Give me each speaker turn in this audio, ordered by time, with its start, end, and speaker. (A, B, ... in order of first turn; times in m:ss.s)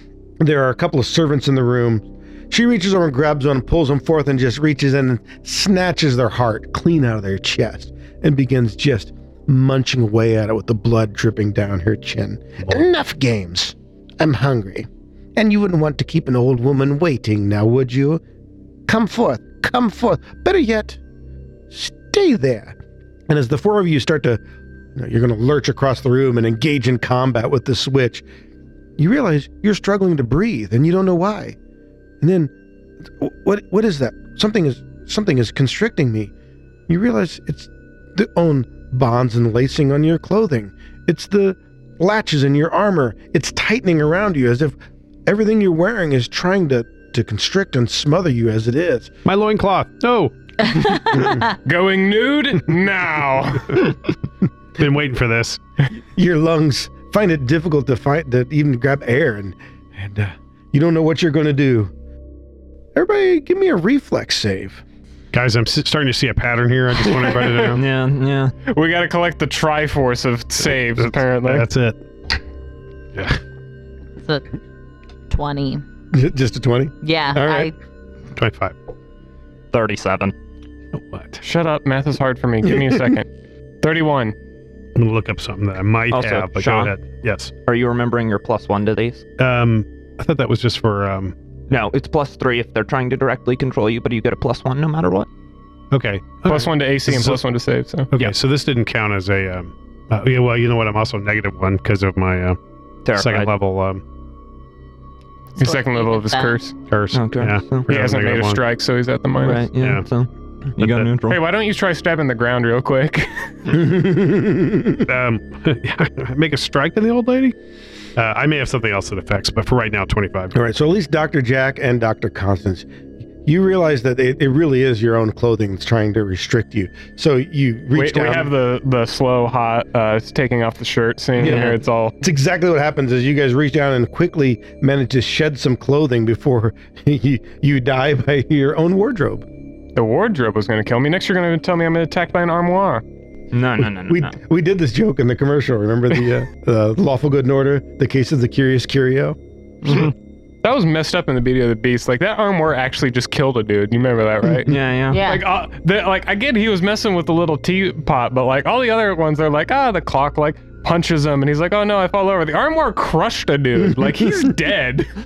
0:00.4-0:18.2 A
0:18.9-0:21.0 A
0:21.7-0:22.8 A
0:23.3-0:24.4 A
0:24.9-0:28.2 A
0:29.0-0:31.6 A
0:32.2-0:32.5 A
0:33.1-0:36.3 A
0:36.9-0:49.2 A
0:49.2-0:51.2 B
0:51.4-0:53.8 C
0:54.8-0:55.6 B
0:56.1-1:01.9 A
1:02.9-1:04.8 A
1:05.3-1:07.8 B
1:07.2-1:07.8 C
1:07.7-1:08.5 D
1:08.6-1:11.7 C
1:10.7-1:12.0 B
1:15.3-1:15.8 E
1:16.1-1:17.7 A
1:17.0-1:17.7 E
1:18.4-1:18.7 B
1:19.7-1:20.3 D
1:20.9-1:21.4 B
1:21.4-1:23.3 C
1:22.7-1:23.0 A
1:23.8-1:24.3 C
1:25.0-1:27.5 B
1:26.1-1:26.9 D
1:27.6-1:29.2 D
1:29.4-1:31.3 B
1:31.7-1:35.3 D
1:35.9-1:37.4 B
1:36.4-1:38.1 C
1:38.1-1:42.6 B
1:43.0-1:43.5 D
1:43.1-1:44.0 B
1:45.6-1:46.6 E
1:45.6-1:46.7 C
1:46.9-1:48.6 B
1:47.1-1:47.9 D
1:47.9-1:49.6 C
1:49.4-1:51.4 D
1:49.8-1:50.0 B
1:50.8-1:51.1 B
1:51.3-1:53.5 C
1:53.7-1:55.1 A
1:55.0-1:57.5 B
1:58.2-2:00.5 B
2:00.5-2:02.9 A
2:03.4-2:08.5 A
2:07.9-2:12.1 C
2:11.4-2:19.4 A
2:11.4-2:11.7 D
2:19.9-2:23.0 C
2:23.5-2:24.4 D
2:24.0-2:29.4 A
2:30.6-2:45.1 C
2:34.6-2:35.2 D
2:35.1-2:35.4 E
2:43.9-2:44.5 A